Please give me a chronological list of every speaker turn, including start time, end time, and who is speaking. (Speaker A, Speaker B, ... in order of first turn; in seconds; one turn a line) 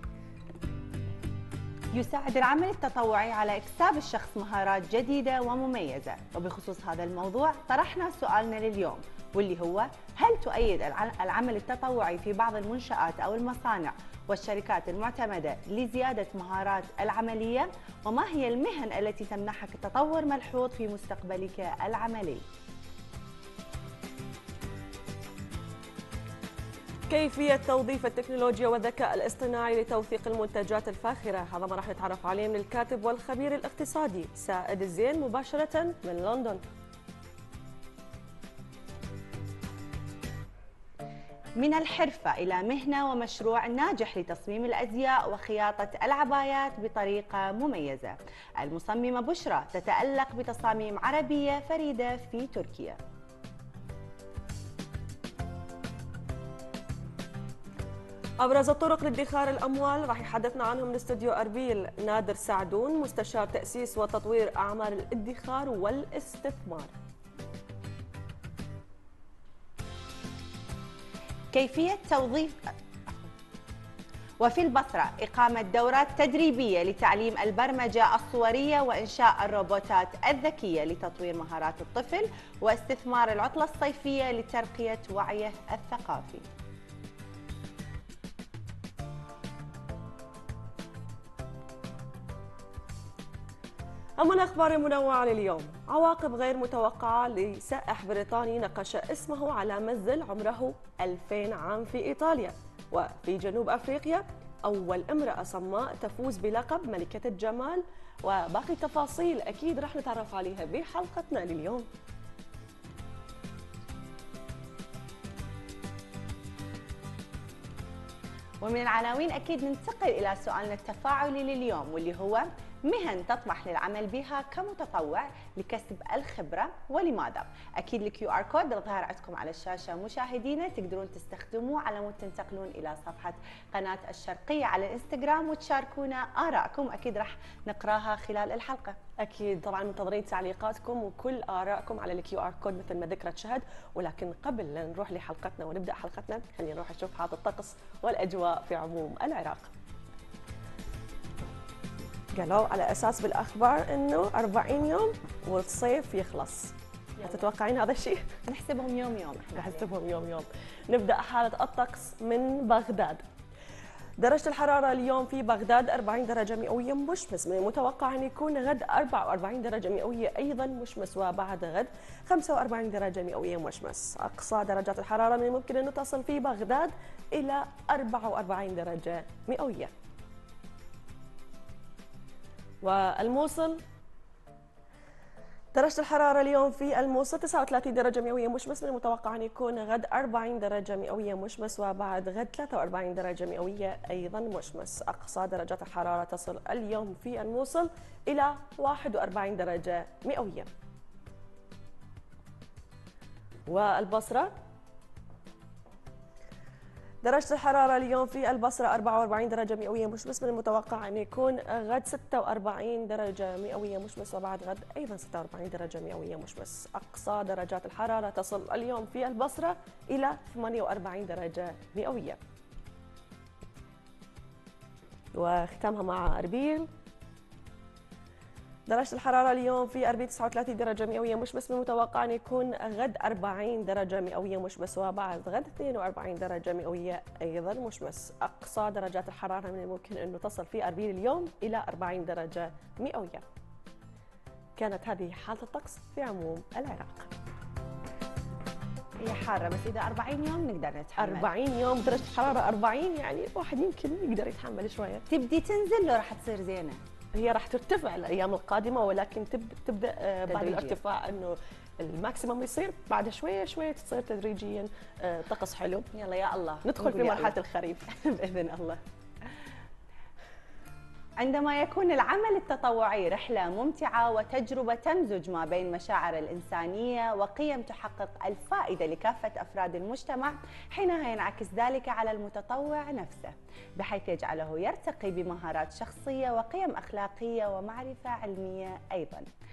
Speaker A: 1.9-22.4
Speaker B: 27.1-36.6
Speaker A: 41.6-53.0
Speaker B: 58.4-66.9
Speaker A: 71.5-72.7
Speaker A: 74.4-86.5
Speaker B: 94.2-111.9
Speaker A: 118.6-139.0
Speaker B: 139.2-149.7
Speaker B: 152.4-158.3
Speaker A: 157.2-157.4
Speaker A: 158.5-159.9
Speaker B: 159.6-163.2
Speaker B: 164.2-179.9
Speaker B: 182.8-183.8
Speaker B: 185.7-200.7
Speaker B: 203.7-204.5
Speaker B: 207.2-222.4
Speaker B: 225.3-226.9
Speaker B: 228.9-243.4
Speaker B: 244.8-247.3
Speaker A: 249.2-251.5
Speaker B: 251.2-255.2
Speaker A: 255.3-257.0
Speaker B: 257.4-266.1
Speaker A: 260.5-261.0
Speaker A: 266.1-267.6
Speaker B: 266.8-268.1
Speaker A: 268.1-269.0
Speaker A: 271.4-289.5